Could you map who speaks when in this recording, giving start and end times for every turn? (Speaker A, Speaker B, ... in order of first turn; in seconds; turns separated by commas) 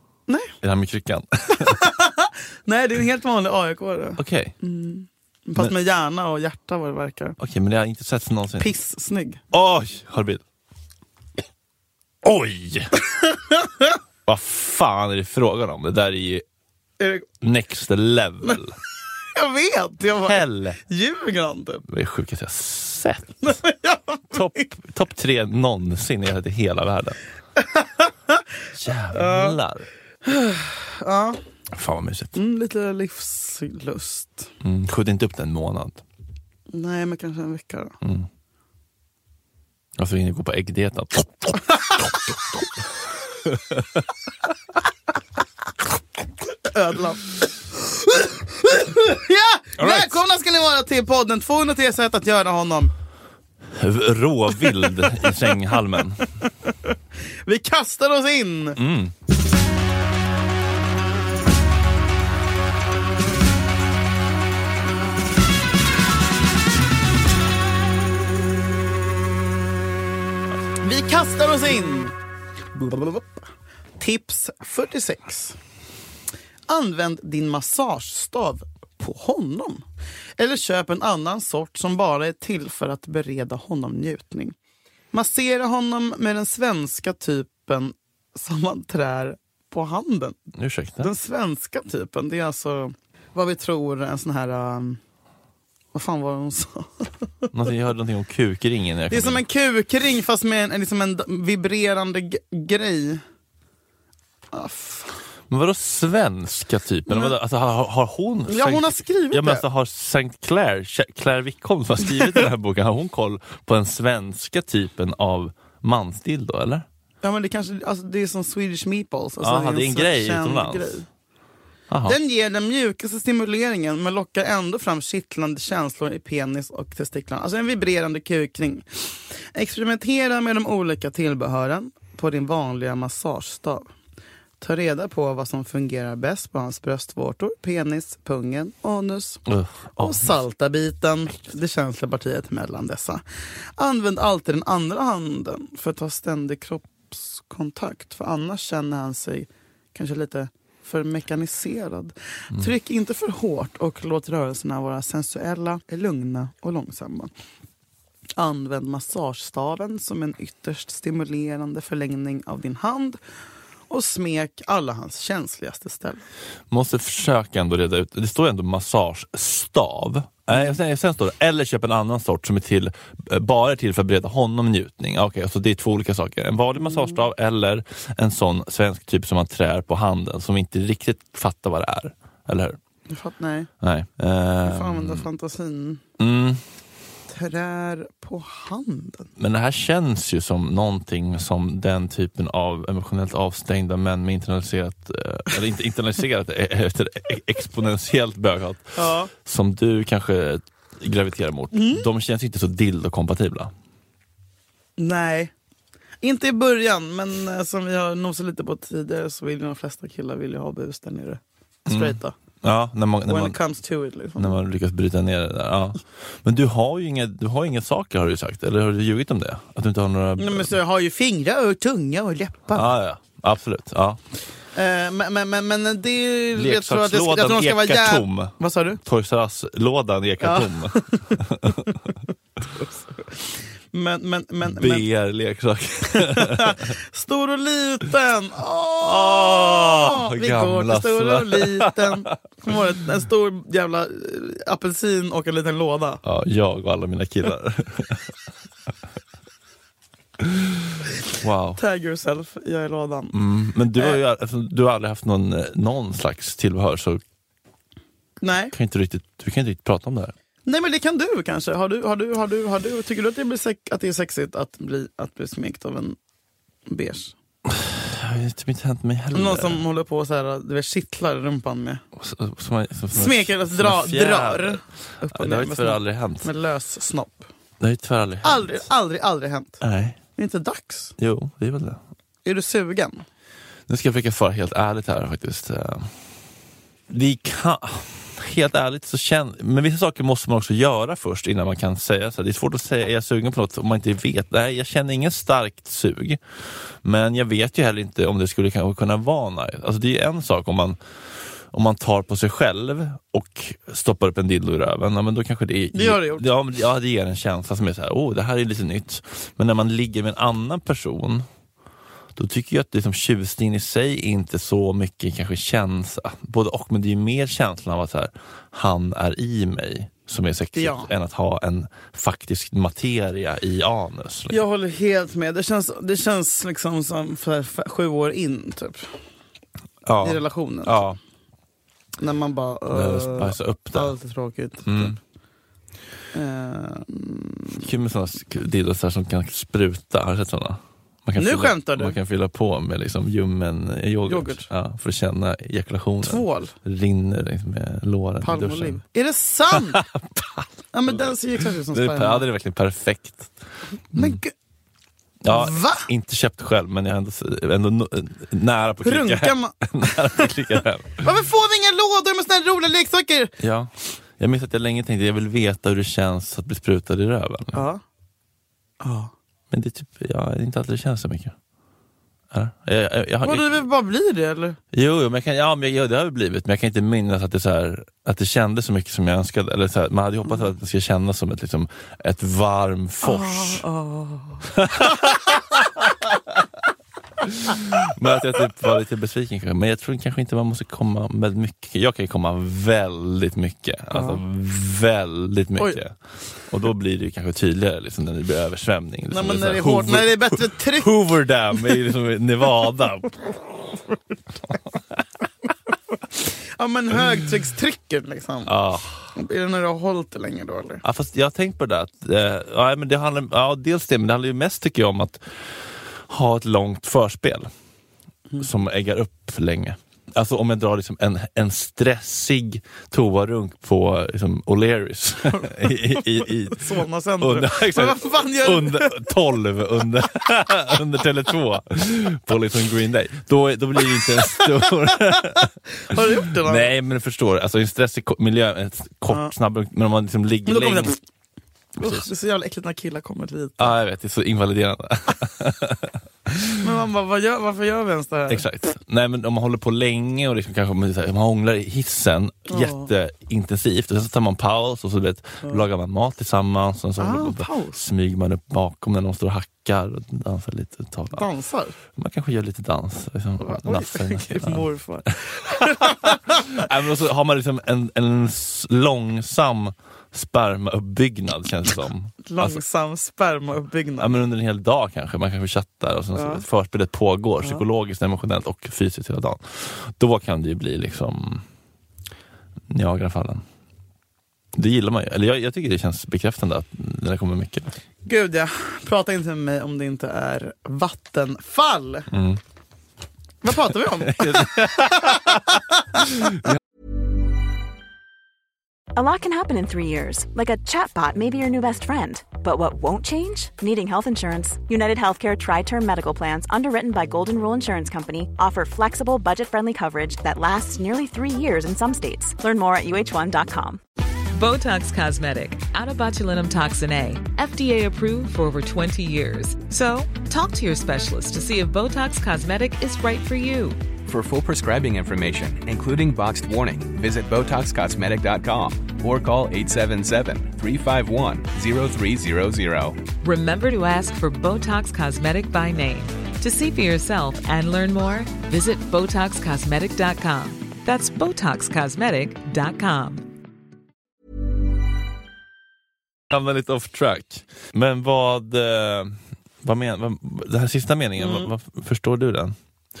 Speaker A: 0.3-0.5, Speaker B: 0.6-1.9, Speaker A: 1.6-7.4, Speaker B: 4.2-4.5, Speaker B: 7.4-8.7, Speaker A: 8.6-9.4, Speaker B: 9.5-10.4, Speaker B: 12.2-12.9, Speaker B: 14.2-16.4, Speaker A: 17.0-17.2, Speaker B: 17.4-18.8, Speaker A: 19.3-21.8, Speaker B: 20.1-20.8, Speaker B: 21.9-23.6, Speaker A: 23.4-24.6, Speaker B: 24.3-27.2, Speaker A: 27.6-28.4, Speaker B: 28.7-29.9, Speaker A: 29.1-29.6, Speaker A: 30.2-31.4, Speaker B: 31.7-32.4, Speaker A: 32.3-34.5, Speaker B: 34.6-36.0, Speaker A: 36.7-38.0, Speaker B: 38.0-38.3, Speaker B: 40.0-42.6, Speaker B: 43.4-44.0, Speaker A: 46.6-52.9, Speaker B: 49.8-50.2, Speaker B: 53.7-56.2, Speaker A: 57.5-58.8, Speaker B: 58.8-59.1, Speaker A: 70.8-72.1, Speaker A: 72.7-73.5, Speaker A: 74.0-75.6, Speaker A: 76.7-79.8, Speaker A: 80.4-84.5, Speaker A: 85.1-90.4, Speaker B: 90.5-91.1, Speaker A: 91.0-95.0, Speaker A: 95.9-97.1, Speaker B: 97.5-99.4, Speaker A: 99.1-103.2, Speaker A: 104.5-105.2, Speaker B: 105.5-116.8, Speaker A: 107.1-107.3, Speaker A: 108.5-109.6, Speaker A: 117.2-121.1, Speaker B: 119.4-121.0, Speaker B: 121.9-122.2, Speaker A: 122.0-133.9, Speaker A: 134.6-139.4, Speaker B: 139.5-140.3, Speaker A: 140.0-143.2, Speaker A: 143.8-157.3, Speaker A: 158.4-163.2, Speaker A: 163.9-166.2, Speaker B: 166.7-182.8, Speaker A: 183.1-183.7, Speaker B: 183.8-185.3, Speaker A: 184.6-186.0, Speaker B: 186.2-186.6, Speaker A: 187.3-189.3, Speaker B: 189.4-203.7, Speaker A: 199.0-199.3, Speaker A: 201.7-202.1, Speaker A: 205.0-205.5, Speaker A: 206.2-212.3, Speaker B: 211.9-213.6, Speaker A: 213.3-214.6, Speaker B: 214.3-220.7, Speaker A: 220.4-222.9, Speaker B: 222.7-224.2, Speaker A: 224.7-229.0, Speaker B: 226.5-231.8, Speaker A: 230.4-232.0, Speaker A: 232.6-235.1, Speaker B: 234.6-236.8, Speaker A: 236.1-246.2, Speaker B: 239.0-242.3, Speaker B: 246.2-248.3, Speaker B: 250.4-251.8, Speaker A: 251.8-253.3, Speaker B: 253.3-257.2, Speaker A: 253.9-254.2, Speaker A: 258.4-258.7, Speaker B: 258.7-260.3, Speaker A: 260.6-266.2, Speaker A: 266.9-267.3, Speaker B: 267.7-269.8, Speaker A: 269.3-272.0, Speaker B: 272.1-276.5, Speaker A: 273.1-277.5, Speaker B: 277.8-278.9, Speaker A: 278.4-279.8, Speaker B: 279.8-280.2, Speaker A: 280.4-281.1, Speaker B: 281.2-282.0, Speaker A: 282.4-283.2, Speaker B: 283.9-286.1, Speaker B: 287.1-296.4, Speaker B: 297.0-301.0, Speaker B: 301.7-311.4, Speaker A: 305.9-306.4, Speaker B: 312.4-324.6, Speaker A: 320.7-321.1, Speaker A: 324.5-329.1, Speaker B: 330.0-331.2, Speaker A: 330.2-331.0, Speaker A: 332.2-335.2, Speaker B: 332.9-334.1, Speaker B: 334.9-335.2, Speaker A: 336.3-337.9, Speaker B: 337.8-349.0, Speaker A: 341.4-342.2, Speaker A: 344.3-344.7, Speaker A: 346.2-346.7, Speaker A: 348.4-350.0, Speaker B: 349.7-353.5, Speaker A: 350.9-352.5, Speaker B: 354.1-354.4, Speaker A: 354.1-354.5, Speaker B: 355.4-361.3, Speaker A: 355.5-356.1, Speaker A: 359.0-360.5, Speaker A: 361.2-363.5, Speaker B: 363.6-367.9, Speaker A: 367.7-368.0, Speaker A: 369.0-369.3, Speaker B: 369.7-371.5, Speaker B: 372.5-373.8, Speaker A: 373.4-374.8, Speaker B: 374.9-383.8, Speaker A: 383.2-385.4, Speaker B: 384.7-385.6, Speaker B: 387.4-396.1, Speaker A: 394.1-394.4, Speaker B: 396.7-403.4, Speaker A: 399.3-401.1, Speaker A: 406.8-408.8, Speaker B: 408.6-409.3, Speaker A: 409.3-411.0, Speaker B: 411.0-417.7, Speaker B: 418.6-441.2, Speaker A: 425.5-429.3, Speaker A: 435.1-436.9, Speaker A: 440.7-441.2, Speaker B: 442.0-442.3, Speaker A: 442.0-444.0, Speaker B: 443.8-446.9, Speaker A: 446.8-448.6, Speaker B: 448.5-461.4, Speaker A: 452.7-453.1, Speaker A: 457.2-458.0, Speaker A: 461.3-461.9, Speaker B: 462.1-464.9, Speaker A: 463.6-466.8, Speaker B: 465.6-472.8, Speaker A: 472.4-474.4, Speaker B: 474.2-481.6, Speaker A: 476.3-476.6, Speaker B: 482.9-483.6, Speaker B: 484.7-488.0, Speaker A: 488.2-492.3, Speaker B: 492.3-492.6, Speaker A: 493.6-496.2, Speaker B: 494.1-496.8, Speaker C: 499.1-514.0, Speaker D: 514.5-524.0, Speaker E: 524.2-533.2, Speaker D: 533.4-543.5, Speaker B: 546.5-552.8, Speaker A: 551.4-551.7